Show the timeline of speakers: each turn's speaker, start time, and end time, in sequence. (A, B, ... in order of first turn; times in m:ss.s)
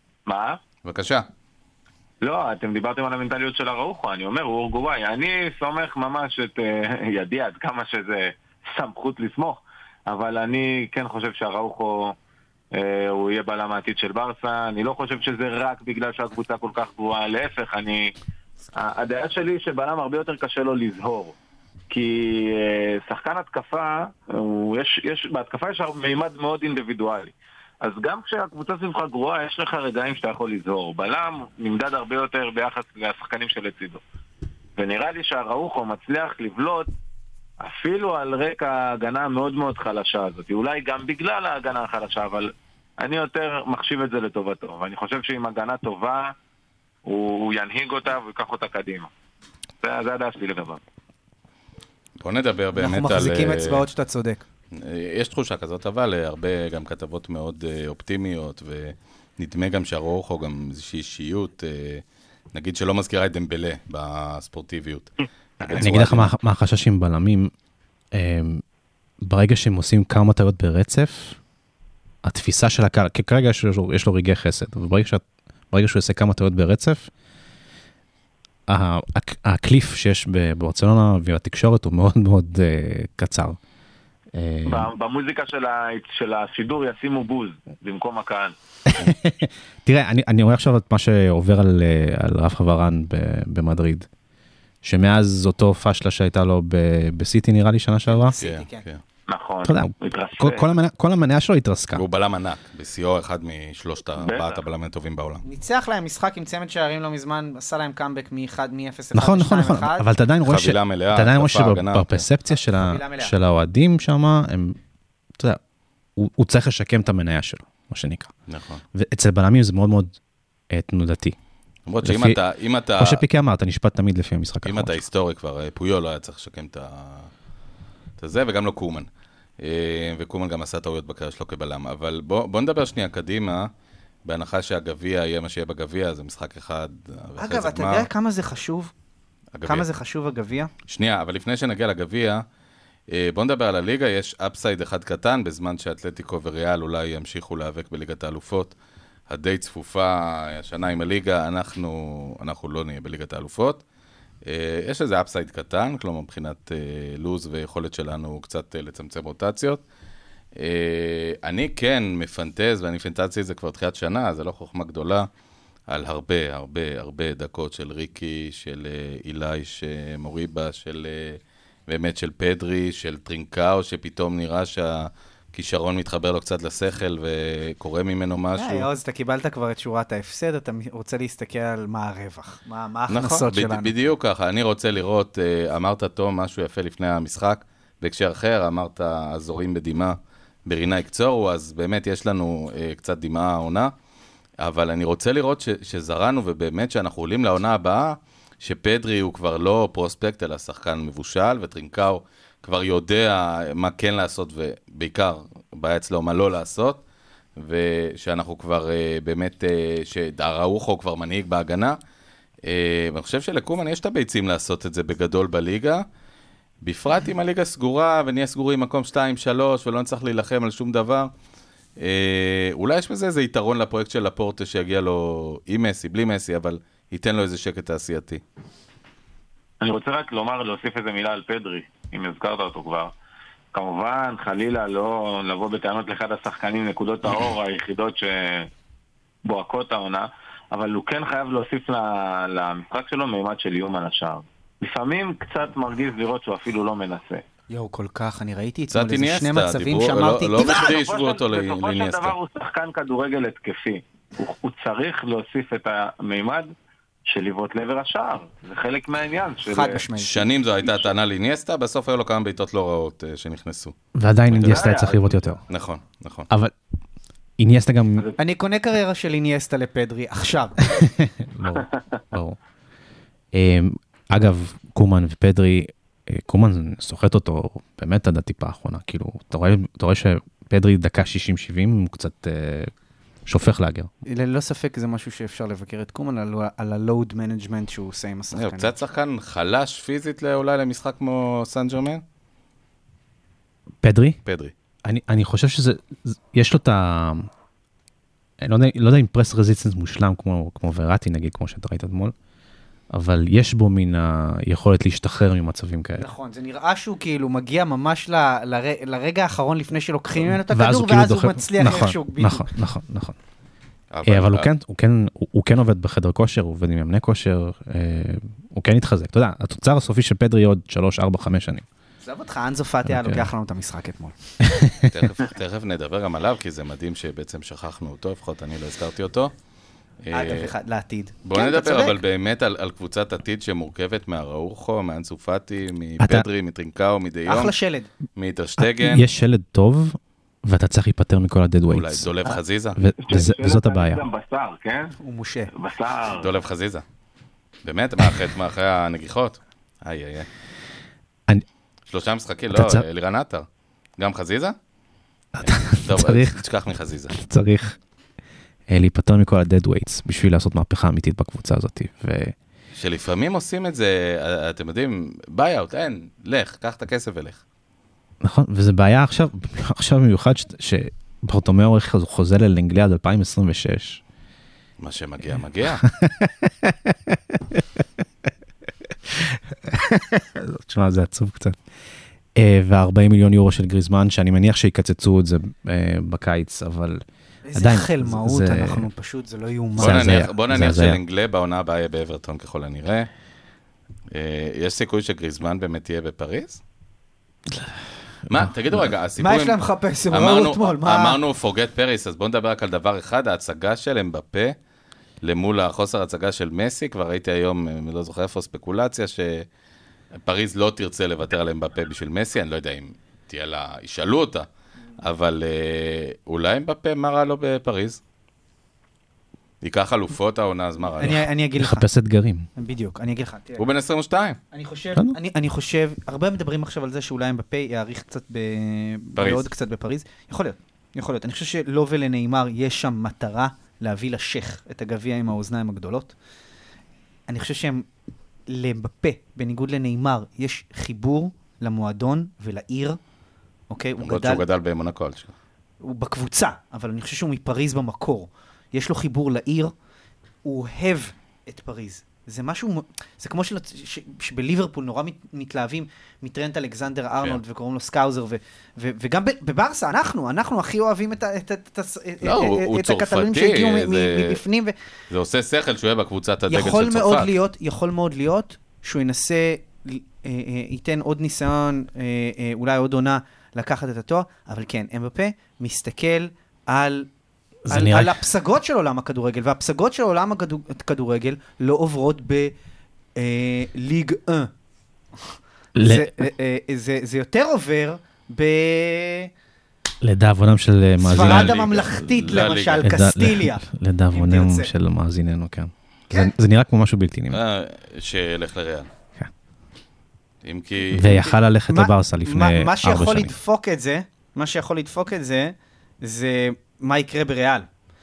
0:00.3-0:00.6 A
0:00.8-0:01.3 B
0:02.2-0:12.2 A
0:12.7-0:18.1 A
0:18.8-0:21.4 A
0:21.9-0:34.0 A
0:34.8-0:36.9 A
0:37.6-0:46.3 A
0:47.1-0:49.1 A
0:49.8-0:50.8 A
0:52.2-0:53.9 B
0:52.8-0:54.4 C
0:54.7-1:06.3 B
1:05.6-1:07.5 D
1:08.1-1:08.6 D
1:09.2-1:11.4 D
1:12.2-1:17.1 D
1:18.7-1:23.6 D
1:24.3-1:24.9 D
1:24.7-1:28.6 A
1:28.9-1:34.1 D
1:34.8-1:38.4 D
1:38.1-1:38.8 C
1:38.4-1:39.0 B
1:39.3-1:40.7 A
1:39.6-1:42.0 D
1:41.9-1:45.4 B
1:44.2-1:44.6 A
1:45.4-1:50.1 C
1:49.1-1:54.8 D
1:50.4-1:52.3 B
1:52.5-1:53.3 C
1:56.2-1:58.3 D
1:58.5-1:58.8 B
1:59.0-2:00.2 D
2:00.7-2:01.4 D
2:01.9-2:03.2 B
2:02.0-2:02.4 D
2:03.0-2:05.0 D
2:04.6-2:07.3 B
2:08.2-2:09.1 B
2:09.6-2:13.7 B
2:14.2-2:18.1 B
2:17.4-2:18.9 C
2:19.6-2:19.9 B
2:19.6-2:20.7 C
2:20.9-2:22.4 B
2:23.1-2:28.7 B
2:29.3-2:33.8 B
2:34.4-2:39.8 B
2:40.6-2:45.3 B
2:45.9-2:58.9 B
2:58.6-3:03.9 C
3:03.1-3:13.9 B
3:14.6-3:27.0 B
3:27.6-3:32.0 B
3:32.6-3:36.0 B
3:36.8-3:41.3 B
3:42.0-3:48.4 B
3:49.8-3:53.1 A
3:53.7-3:58.7 A
3:59.4-4:07.4 A
4:07.7-4:10.9 C
4:08.9-4:12.4 B
4:10.6-4:16.7 A
4:17.3-4:20.0 A
4:19.7-4:20.5 C
4:20.2-4:24.0 B
4:24.2-4:25.6 D
4:24.5-4:24.9 B
4:24.5-4:25.4 A
4:25.7-4:26.5 B
4:27.6-4:28.3 D
4:28.4-4:30.9 C
4:30.9-4:32.6 D
4:33.5-4:42.9 D
4:43.5-4:44.1 D
4:44.3-4:48.9 C
4:48.5-4:52.2 B
4:54.0-4:54.4 D
4:54.4-4:54.7 B
4:55.0-4:57.5 D
4:58.6-5:02.3 D
5:03.1-5:06.3 D
5:06.2-5:12.7 C
5:10.7-5:13.4 D
5:14.1-5:14.7 B
5:14.2-5:21.8 D
5:22.2-5:24.4 C
5:23.0-5:23.5 D
5:24.6-5:25.2 D
5:25.1-5:29.5 B
5:30.2-5:30.7 B
5:30.3-5:32.2 C
5:31.4-5:37.7 B
5:36.2-5:36.5 D
5:37.5-5:38.1 C
5:38.4-5:39.3 B
5:38.8-5:42.3 D
5:41.9-5:43.0 B
5:43.0-5:44.2 D
5:43.2-5:45.2 A
5:45.2-5:45.7 C
5:45.7-5:46.5 A
5:46.3-5:47.0 B
5:47.8-5:50.5 B
5:52.1-5:53.7 B
5:52.7-5:53.0 D
5:54.2-5:54.8 B
5:55.6-5:56.6 D
5:55.7-5:57.3 B
5:57.3-5:58.0 D
5:58.9-6:02.6 D
6:03.0-6:07.6 B
6:08.4-6:14.2 D
6:15.0-6:16.0 B
6:16.0-6:18.0 D
6:19.3-6:21.8 D
6:22.6-6:27.2 D
6:27.6-6:30.3 C
6:27.8-6:29.1 D
6:30.0-6:31.2 D
6:30.0-6:33.3 B
6:34.3-6:36.8 B
6:37.7-6:39.1 D
6:38.5-6:39.8 B
6:39.4-6:41.4 C
6:40.3-6:44.8 B
6:45.4-6:49.7 B
6:50.4-6:54.7 B
6:55.2-6:58.2 B
6:59.8-7:01.5 B
7:01.2-7:02.1 C
7:01.8-7:02.7 D
7:02.8-7:03.8 C
7:03.8-7:04.6 B
7:04.7-7:16.4 C
7:09.4-7:09.7 B
7:17.5-7:18.1 C
7:18.7-7:23.2 C
7:23.9-7:24.6 C
7:24.2-7:25.5 B
7:26.0-7:29.9 C
7:30.6-7:44.9 C
7:42.4-7:44.6 B
7:45.3-7:47.5 B
7:46.7-7:57.3 C
7:57.9-7:58.4 D
7:57.9-8:02.7 C
8:03.4-8:04.7 C
8:06.0-8:06.5 D
8:06.0-8:09.5 C
8:10.2-8:11.8 D
8:11.2-8:14.9 C
8:11.3-8:13.1 B
8:13.0-8:17.6 D
8:17.5-8:19.1 B
8:20.6-8:21.5 B
8:21.1-8:23.5 D
8:21.9-8:27.9 C